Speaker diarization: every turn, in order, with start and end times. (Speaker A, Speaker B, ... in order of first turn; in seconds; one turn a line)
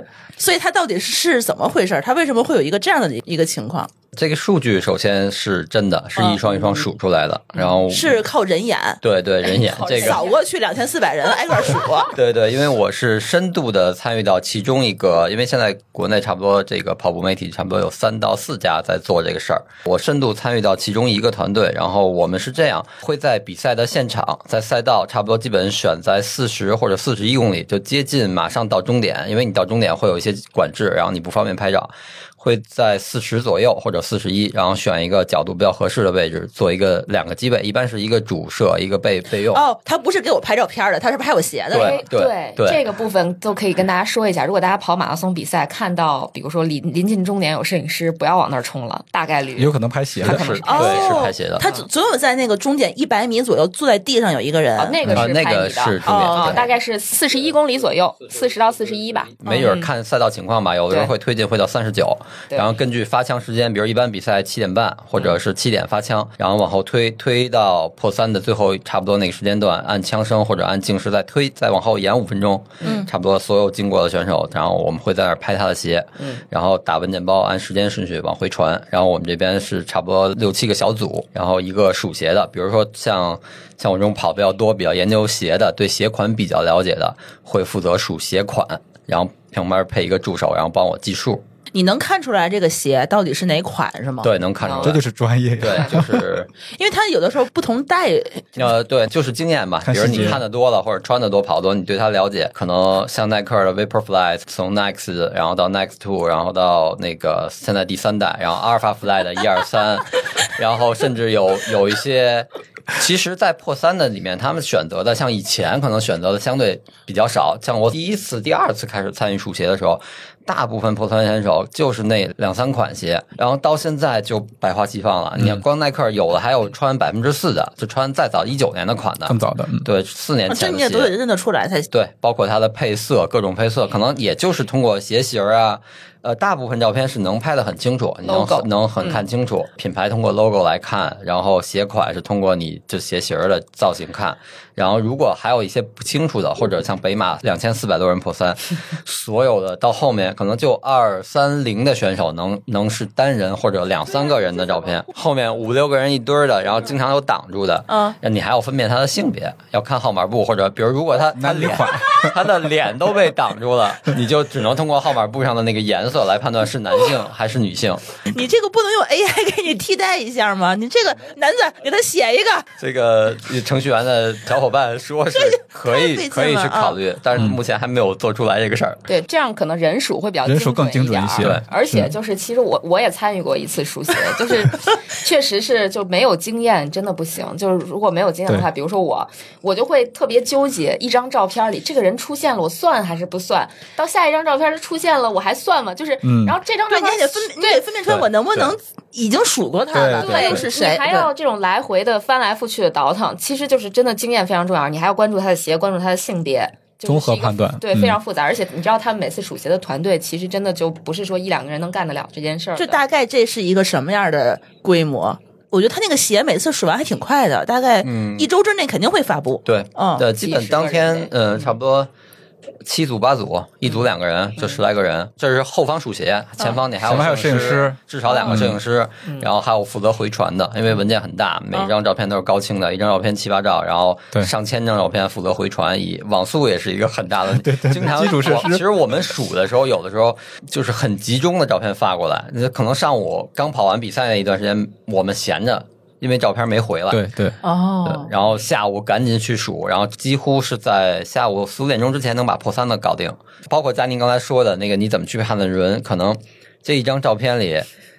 Speaker A: 0.4-3.9
Speaker B: 4.1-8.2
Speaker A: 6.2-6.7
Speaker A: 7.9-9.0
Speaker B: 9.0-10.2
Speaker C: 9.4-10.4
Speaker A: 9.5-12.2
Speaker B: 12.1-39.6
Speaker A: 39.5-42.0
Speaker B: 41.7-42.8
Speaker C: 41.7-49.7
Speaker D: 49.6-50.8
Speaker B: 50.2-51.7
Speaker C: 50.2-51.9
Speaker A: 50.6-55.0
Speaker C: 54.8-59.9
Speaker B: 55.1-56.7
Speaker A: 56.0-56.7
Speaker A: 59.5-59.8
Speaker B: 59.5-91.4
Speaker A: 72.8-73.1
Speaker A: 91.7-94.3
Speaker B: 94.2-95.0
Speaker C: 94.6-95.0
Speaker D: 94.8-96.3
Speaker B: 95.6-96.5
Speaker A: 96.7-98.7
Speaker B: 98.6-131.1
Speaker D: 99.8-100.4
Speaker D: 129.3-129.9
Speaker A: 130.5-131.9
Speaker B: 131.9-168.1
Speaker C: 138.2-139.2
Speaker A: 154.1-154.9
Speaker A: 157.9-158.2
Speaker D: 161.3-162.3
Speaker A: 168.3-172.7
Speaker B: 172.8-179.1
Speaker A: 175.3-177.0
Speaker C: 179.1-197.9
Speaker D: 180.4-182.1
Speaker D: 196.2-196.6
Speaker A: 196.9-201.3
Speaker B: 198.1-198.8
Speaker D: 199.9-200.6
Speaker C: 200.1-213.0
Speaker D: 207.1-208.2
Speaker A: 212.8-220.3
Speaker B: 218.0-218.5
Speaker B: 219.7-222.1
Speaker C: 220.4-221.7
Speaker B: 222.8-247.2
Speaker D: 227.0-228.8
Speaker C: 228.3-228.7
Speaker D: 237.6-238.8
Speaker D: 247.1-247.6
Speaker A: 247.6-248.3
Speaker B: 248.0-257.9